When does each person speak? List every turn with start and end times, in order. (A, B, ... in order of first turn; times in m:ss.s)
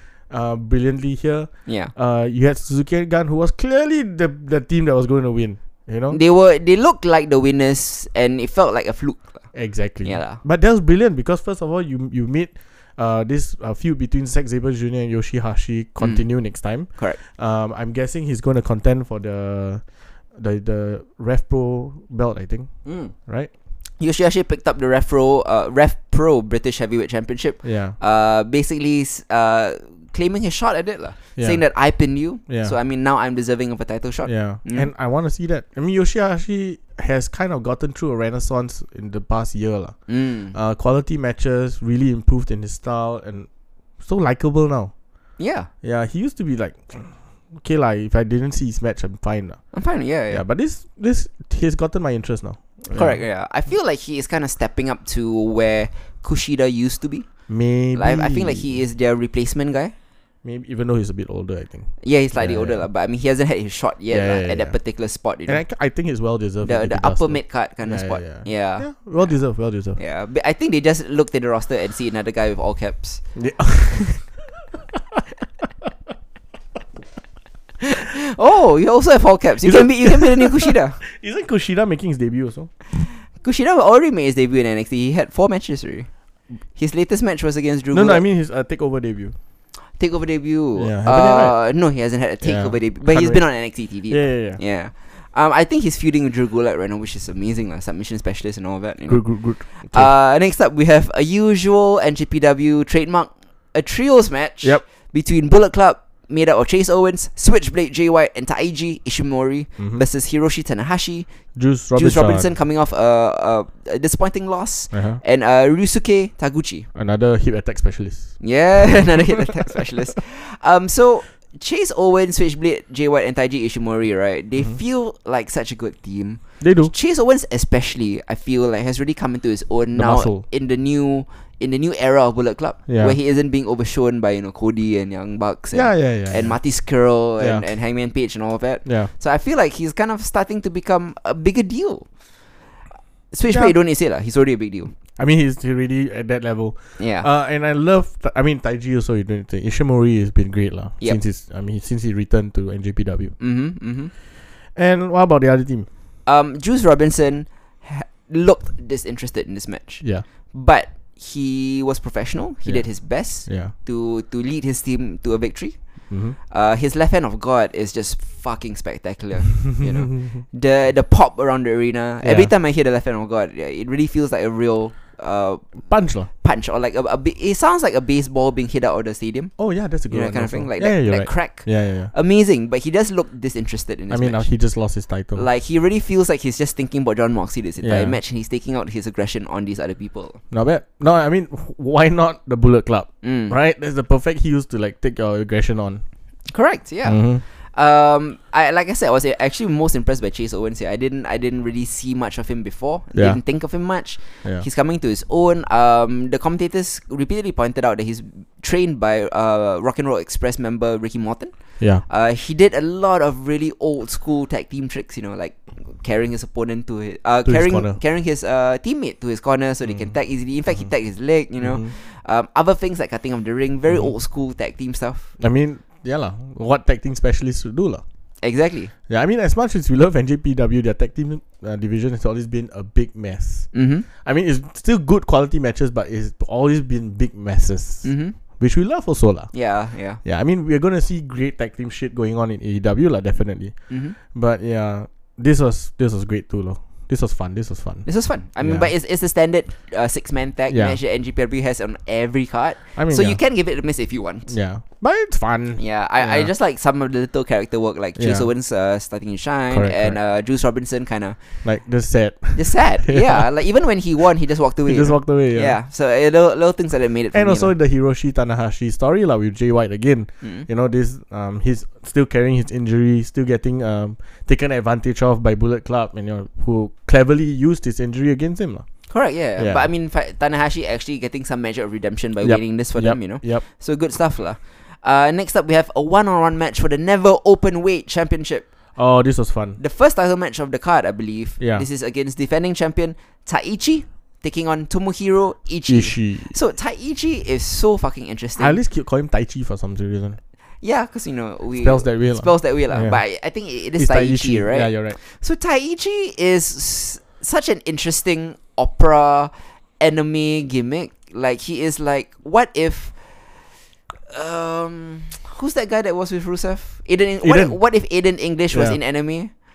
0:00.3-0:06.2 A
0:01.7-0:01.9 B
0:06.1-0:10.4 B
0:09.5-0:23.5 A
0:16.0-0:17.2 B
0:22.8-0:23.1 B
0:24.0-0:34.9 B
0:27.6-0:28.0 A
0:31.4-0:31.6 A
0:32.5-0:32.8 A
0:34.2-0:43.5 A
0:40.1-0:40.6 B
0:44.0-0:44.9 A
0:45.4-0:45.7 B
0:45.8-0:49.6 A
0:49.7-0:50.4 B
0:50.3-0:53.2 A
0:52.9-0:57.3 B
0:57.5-0:58.7 A
0:57.9-0:59.9 B
1:00.4-1:02.9 A
1:02.0-1:05.6 B
1:04.1-1:04.8 A
1:05.5-1:10.0 A
1:06.6-1:09.4 B
1:10.0-1:13.2 B
1:13.4-1:14.4 A
1:14.9-1:15.2 A
1:17.8-1:21.0 B
1:19.6-1:22.7 A
1:23.4-1:26.1 B
1:26.7-1:28.2 B
1:27.9-1:29.3 A
1:30.0-1:56.9 B
1:30.8-1:31.6 A
1:32.4-1:34.6 A
1:39.1-1:40.2 A
1:49.8-1:50.0 A
1:51.6-1:52.5 A
1:54.9-1:55.2 A
1:56.9-1:59.1 A
1:58.4-2:22.1 B
2:06.6-2:06.9 A
2:10.0-2:10.4 A
2:12.9-2:13.2 A
2:15.7-2:16.6 A
2:17.4-2:17.7 A
2:18.8-2:19.1 A
2:23.3-2:24.9 B
2:23.5-2:23.8 A
2:25.2-2:33.4 A
2:27.0-2:27.3 B
2:33.4-2:34.1 B
2:34.8-2:35.9 A
2:36.3-2:59.5 B
2:42.6-2:43.7 A
2:46.1-2:46.4 A
2:49.8-2:50.4 A
2:52.2-2:52.5 A
2:55.8-2:56.3 A
2:59.6-3:02.1 A
3:00.1-3:04.5 B
3:04.1-3:05.5 A
3:05.3-3:10.4 B
3:07.8-3:08.2 A
3:10.5-3:16.0 A
3:13.2-3:13.6 B
3:16.5-3:45.3 B
3:17.0-3:17.4 A
3:23.2-3:23.4 A
3:37.4-3:38.0 A
3:39.9-3:40.1 A
3:41.6-3:41.9 A
3:43.9-3:44.1 A
3:45.4-3:48.0 A
3:48.4-3:48.9 B
3:49.1-3:59.7 A
3:53.7-3:54.1 B
3:58.0-3:58.4 B
3:59.5-4:00.2 B
4:00.2-4:08.1 A
4:03.9-4:04.2 B
4:08.1-4:14.6 B
4:08.6-4:08.9 A
4:10.7-4:11.0 A
4:13.0-4:13.4 A
4:14.5-4:16.5 A
4:15.8-4:21.6 B
4:18.2-4:18.5 A
4:19.7-4:20.2 A
4:21.6-4:23.4 A
4:22.6-4:27.7 B
4:24.9-4:25.8 A
4:27.3-4:38.9 A
4:30.4-4:30.7 B
4:39.1-4:48.7 B
4:39.6-4:39.9 A
4:42.4-4:43.6 A
4:49.0-4:49.8 A
4:49.8-4:58.8 B
4:51.6-4:51.9 A
4:55.9-4:56.6 A
4:58.6-5:00.4 A
5:00.8-5:13.2 B
5:01.8-5:03.2 A
5:04.0-5:05.2 A
5:14.3-5:19.5 B
5:17.4-5:17.8 A
5:18.7-5:19.0 A